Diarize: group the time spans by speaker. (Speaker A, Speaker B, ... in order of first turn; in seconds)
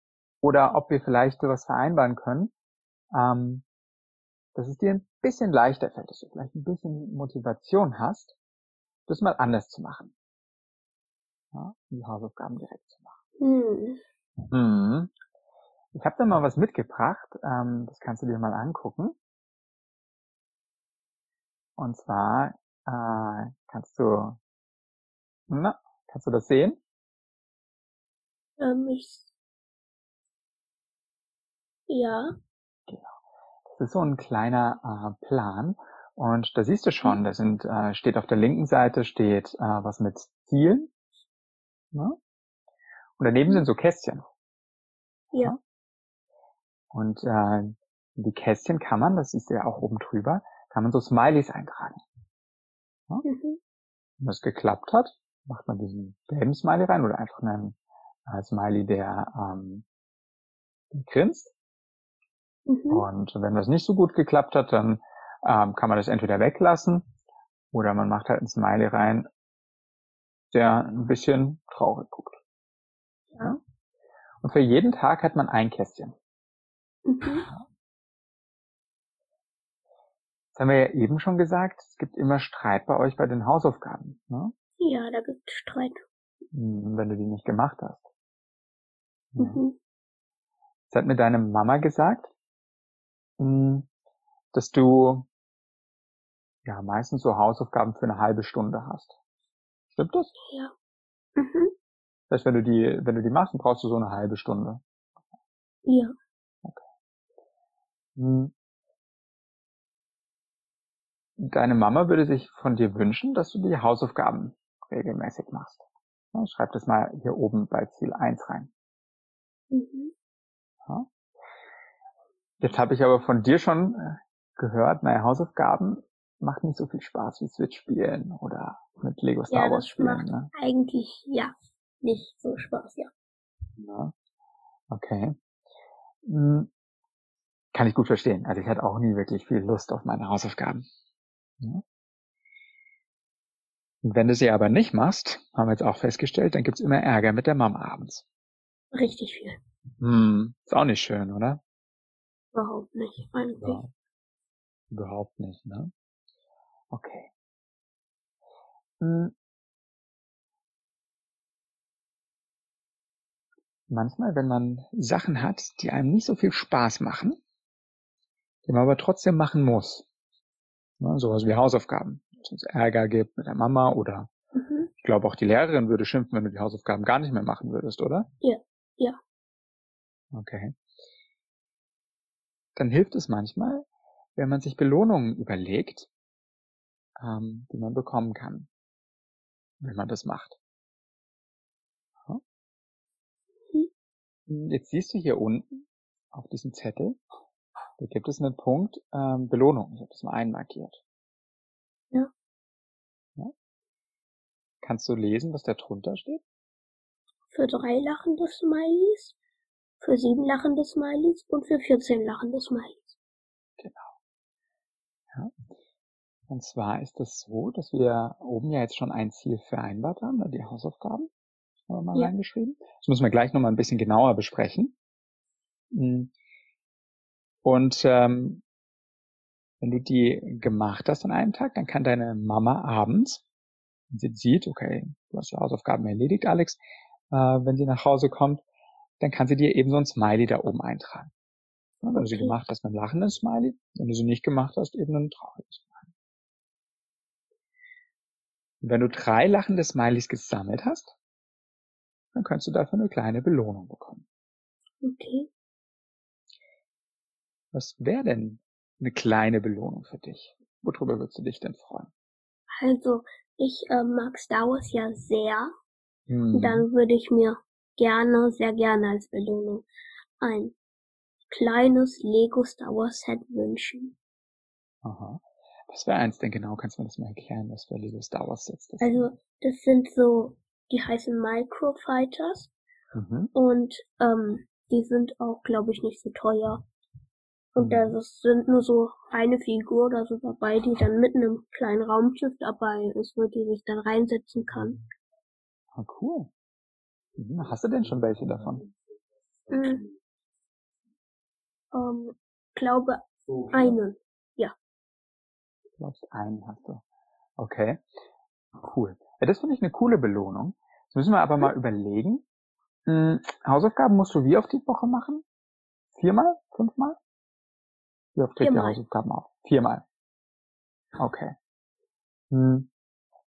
Speaker A: 0.4-2.5, 3.1-3.6, 4.5-8.4, 9.1-10.1, 11.5-13.2, 14.5-15.1, 15.9-19.2, 21.8-24.4, 25.5-26.8, 32.9-33.1, 33.8-40.9, 43.2-44.3, 46.9-52.0, 54.2-57.8, 58.3-59.9, 60.9-61.5, 62.9-67.1, 67.7-69.3, 70.5-72.4, 74.4-76.2, 77.3-77.6, 80.5-84.5, 86.5-88.0, 89.3-89.6, 90.9-92.3, 93.4-93.9, 94.5-95.3, 96.7-99.2, 99.9-100.3, 102.3-104.8, 108.2-108.5, 111.4-118.7, 122.6-130.5, 133.8-134.1, 134.9-135.3, 136.2-136.7, 137.7-140.9, 144.0-148.3, 150.0-151.6, 153.6-153.9, 154.9-155.9, 156.9-157.3, 159.0-159.3, 163.9-167.4, 168.7-170.1, 171.0-174.3, 175.0-178.3, 180.3-180.8, 182.8-186.1, 187.2-188.7, 189.8-190.6, 194.5-197.2, 198.0-201.0, 204.8-206.4, 213.8-214.1, 215.3-215.6, 216.5-221.3, 221.9-224.9, 225.9-226.3, 227.7-228.6, 229.8-233.4, 234.1-238.6, 239.2-241.3, 242.0-246.1, 248.8-251.2, 252.3-254.2, 257.7-262.1, 266.3-266.9, 275.0-279.3, 283.1-283.5, 287.8-288.2, 295.9-296.5, 297.4-298.9, 306.0-307.0, 307.6-308.0, 308.8-312.4, 313.1-315.4, 316.1-317.2, 318.4-320.0, 321.2-321.5, 322.5-322.9
Speaker B: 13.4-14.0, 28.6-29.3, 31.9-32.3, 53.2-53.6, 62.7-63.0, 77.1-77.5, 84.8-86.0, 89.4-89.8, 100.5-100.7, 101.4-101.7, 105.9-106.1, 119.7-120.1, 129.5-133.1, 148.9-149.6, 152.5-153.8, 174.6-174.9, 178.4-179.2, 207.5-209.4, 210.0-213.2, 242.2-242.6, 255.0-255.5, 262.8-265.7, 266.5-269.9, 270.4-270.8, 271.5-274.1, 279.0-282.7, 283.5-286.9, 287.8-295.0, 299.7-300.1, 301.9-304.7, 318.6-319.0